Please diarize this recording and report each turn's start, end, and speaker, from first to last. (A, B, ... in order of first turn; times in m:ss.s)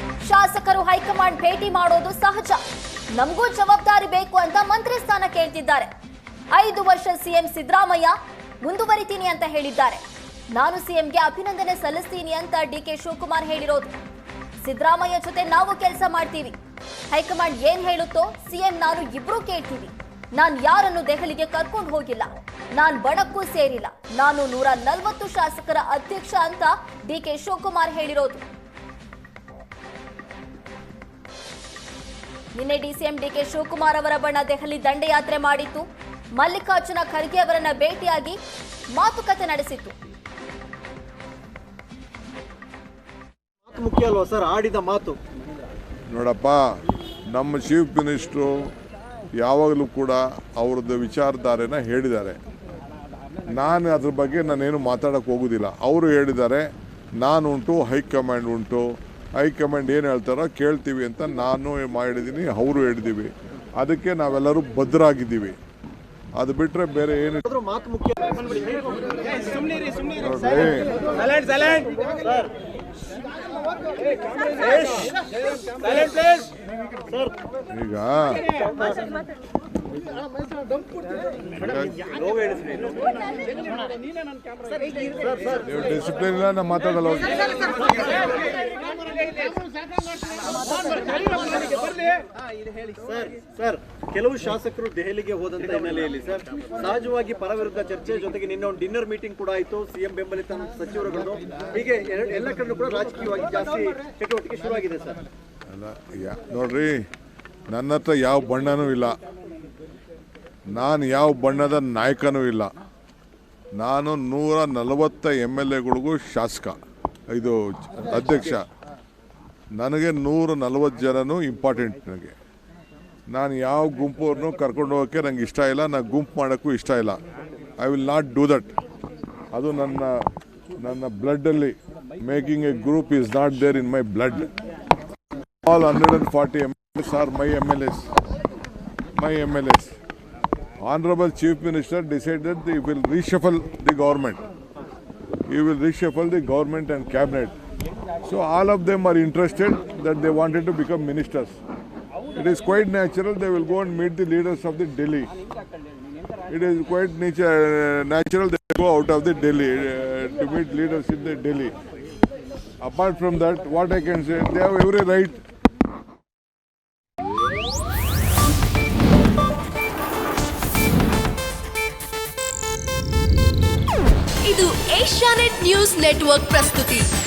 0:00.2-0:05.9 A
0:06.5-0:14.0 A
0:14.6-0:16.6 A
0:17.1-0:28.4 A
0:32.6-0:38.4 A
0:38.9-0:40.0 A
0:43.7-0:45.2 B
0:46.1-0:46.6 C
0:47.3-0:48.6 C
0:49.3-0:52.4 C
0:53.4-0:56.6 C
0:57.2-1:05.6 C
1:06.4-1:07.5 C
1:07.5-1:09.9 B
1:10.2-1:11.0 C
1:11.2-1:12.5 B
1:14.3-1:16.5 B
1:17.1-1:17.3 B
1:17.7-1:18.5 C
1:18.5-1:19.1 B
1:21.6-1:22.0 C
1:22.0-1:23.1 B
1:24.8-1:25.6 B
1:25.6-1:27.6 C
1:31.1-1:32.0 B
1:33.0-1:45.2 B
1:45.7-1:47.0 C
1:47.7-1:49.2 C
1:50.7-1:52.7 C
1:53.8-1:56.8 C
1:57.3-1:58.6 C
1:59.8-2:02.3 C
2:03.3-2:07.2 C
2:07.8-2:08.7 C
2:09.5-2:10.1 C
2:10.7-2:14.5 C
2:15.6-2:18.1 C
2:19.2-2:19.9 C
2:20.8-2:24.4 C
2:25.5-2:27.6 C
2:28.2-2:31.6 C
2:32.3-2:35.3 C
2:36.5-2:41.8 C
2:42.8-2:45.4 C
2:54.4-2:57.1 D